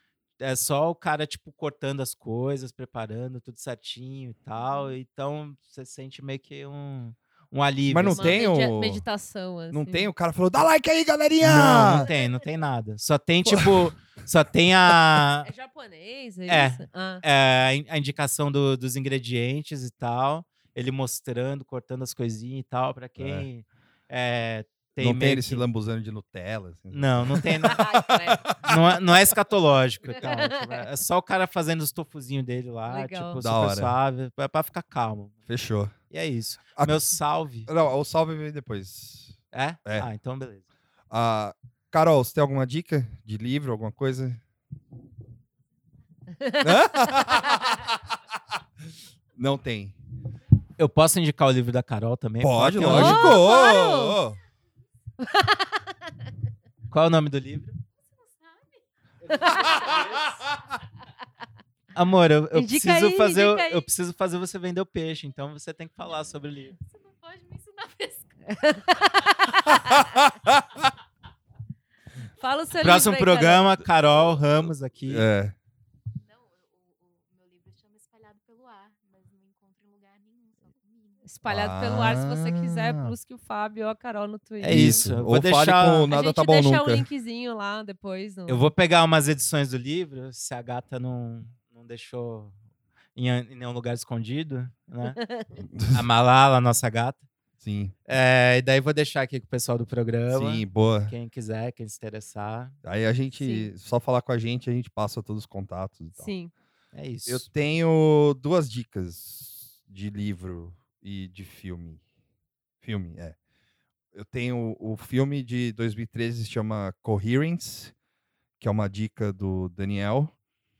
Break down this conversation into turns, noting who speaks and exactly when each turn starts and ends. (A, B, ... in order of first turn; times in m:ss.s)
0:00.4-0:08.4 A
0:04.6-0:04.9 B
0:07.9-0:09.0 C
0:08.1-0:10.1 B
0:09.7-0:12.1 C
0:11.4-0:15.5 A
0:13.4-0:13.9 C
0:15.4-0:17.2 B
0:16.5-0:25.6 A
0:23.2-0:23.5 C
0:25.0-0:28.7 C
0:26.9-0:27.8 A
0:27.7-0:28.4 B
0:28.6-0:35.4 A
0:30.2-0:30.8 B
0:32.9-0:33.4 B
0:33.4-0:33.9 C
0:35.5-0:36.0 C
0:36.1-0:37.7 A
0:37.7-0:40.1 C
0:39.5-0:40.6 A
0:41.1-0:44.4 C
0:46.4-0:47.6 B
0:46.6-0:48.0 C
0:49.4-0:49.9 C
0:50.8-0:53.4 A
0:52.4-0:54.4 C
0:52.8-0:54.2 B
0:55.2-0:55.8 B
0:56.9-0:57.8 A
0:59.3-0:59.7 B
0:59.5-1:00.1 C
1:01.9-1:06.8 A
1:02.5-1:03.9 B
1:06.9-1:08.3 D
1:08.5-1:10.2 B
1:09.7-1:10.9 C
1:12.4-1:13.7 B
1:12.8-1:15.2 A
1:15.1-1:15.5 C
1:16.3-1:21.2 D
1:21.2-1:25.0 B
1:21.4-1:23.1 C
1:24.6-1:26.1 A
1:24.7-1:27.1 C
1:26.1-1:28.7 B
1:28.5-1:32.5 A
1:33.1-1:35.2 A
1:35.0-1:35.5 B
1:35.6-1:36.0 C
1:35.9-1:37.3 A
1:37.6-1:37.9 C
1:38.1-1:42.8 A
1:40.3-1:41.1 C
1:42.8-1:46.3 C
1:43.3-1:43.7 B
1:46.2-1:46.5 B
1:46.9-1:47.5 A
1:47.3-1:52.0 C
1:52.8-1:53.4 C
1:54.1-1:57.9 C
1:58.6-2:00.3 C